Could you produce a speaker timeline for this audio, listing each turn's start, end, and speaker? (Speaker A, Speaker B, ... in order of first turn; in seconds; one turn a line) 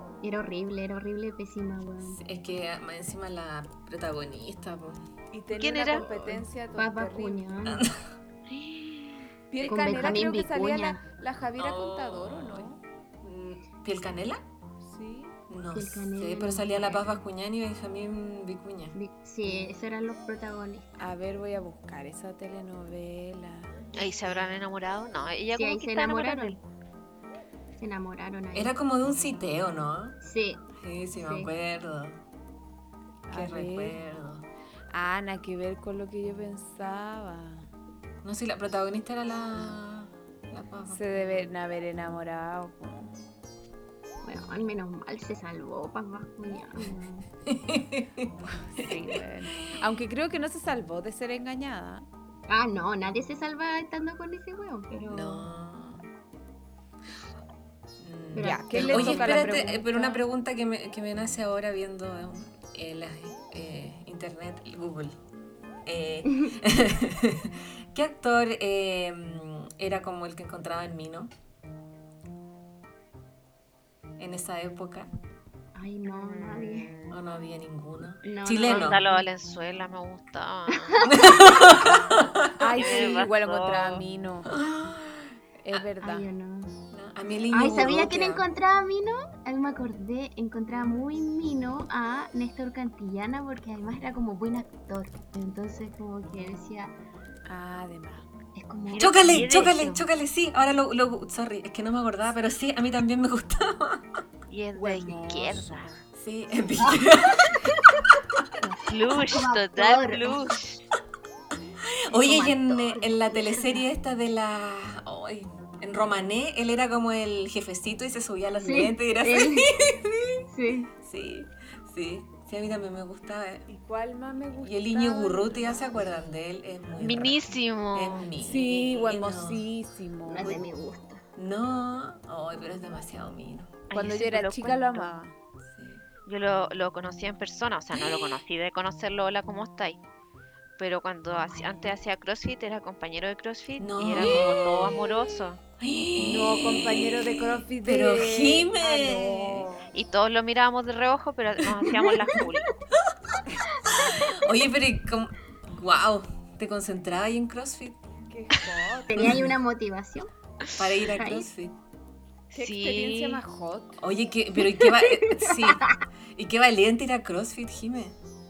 Speaker A: 0.2-2.2
Speaker B: 2.0-5.0
Speaker C: 5.3-7.6
Speaker D: 5.5-6.1
Speaker A: 6.0-7.9
Speaker B: 7.6-8.0
Speaker D: 8.5-9.2
Speaker C: 9.5-12.8
Speaker A: 9.6-11.0
Speaker B: 11.6-12.7
Speaker B: 13.2-14.4
Speaker C: 14.8-15.3
Speaker B: 15.5-18.9
Speaker A: 15.7-17.1
Speaker A: 18.9-21.1
Speaker C: 21.0-23.8
Speaker D: 23.9-26.6
Speaker A: 25.5-26.6
Speaker A: 27.8-28.7
Speaker B: 28.5-30.2
Speaker A: 30.2-31.5
Speaker B: 30.8-32.2
Speaker C: 33.3-34.0
Speaker B: 33.3-34.5
Speaker C: 34.9-37.7
Speaker B: 38.2-41.0
Speaker C: 40.9-43.2
Speaker A: 44.2-47.3
Speaker B: 47.4-49.0
Speaker C: 48.5-52.0
Speaker A: 52.5-55.5
Speaker B: 55.1-56.0
Speaker B: 58.0-65.2
Speaker A: 58.3-59.7
Speaker C: 58.4-60.2
Speaker B: 65.8-71.3
Speaker A: 66.2-66.5
Speaker B: 74.2-75.1
Speaker A: 75.7-76.9
Speaker D: 76.1-77.2
Speaker B: 77.1-79.0
Speaker A: 78.2-79.3
Speaker D: 78.6-81.1
Speaker A: 80.7-81.5
Speaker B: 81.0-82.5
Speaker C: 82.6-84.5
Speaker D: 82.8-84.0
Speaker B: 84.5-85.8
Speaker C: 85.6-86.3
Speaker A: 86.0-86.8
Speaker B: 86.9-88.4
Speaker A: 87.5-96.9
Speaker C: 97.5-98.3
Speaker A: 98.5-100.0
Speaker D: 98.9-99.9
Speaker B: 99.0-104.2
Speaker D: 104.5-105.9
Speaker C: 104.7-106.0
Speaker B: 106.1-108.5
Speaker A: 106.8-107.8
Speaker A: 108.6-110.6
Speaker D: 108.8-110.8
Speaker B: 111.8-120.4
Speaker A: 112.1-113.8
Speaker A: 118.6-119.7
Speaker A: 120.5-120.9
Speaker B: 121.0-123.7
Speaker C: 123.7-125.8
Speaker B: 124.6-129.6
Speaker D: 127.0-128.3
Speaker C: 128.4-130.6
Speaker A: 130.2-131.2
Speaker B: 131.3-133.8
Speaker D: 133.9-135.1
Speaker C: 133.9-135.3
Speaker B: 135.7-136.0
Speaker D: 136.2-140.0
Speaker B: 137.9-138.3
Speaker D: 140.8-145.6
Speaker B: 141.5-141.8
Speaker B: 143.8-145.1
Speaker B: 145.8-149.7
Speaker C: 146.2-149.9
Speaker D: 149.9-152.7
Speaker B: 153.9-158.0
Speaker C: 158.3-159.4
Speaker A: 159.1-160.3
Speaker B: 159.1-159.5
Speaker B: 160.8-161.8
Speaker A: 161.0-161.5
Speaker D: 162.5-163.4
Speaker C: 162.5-164.0
Speaker B: 164.0-168.2
Speaker A: 164.6-165.9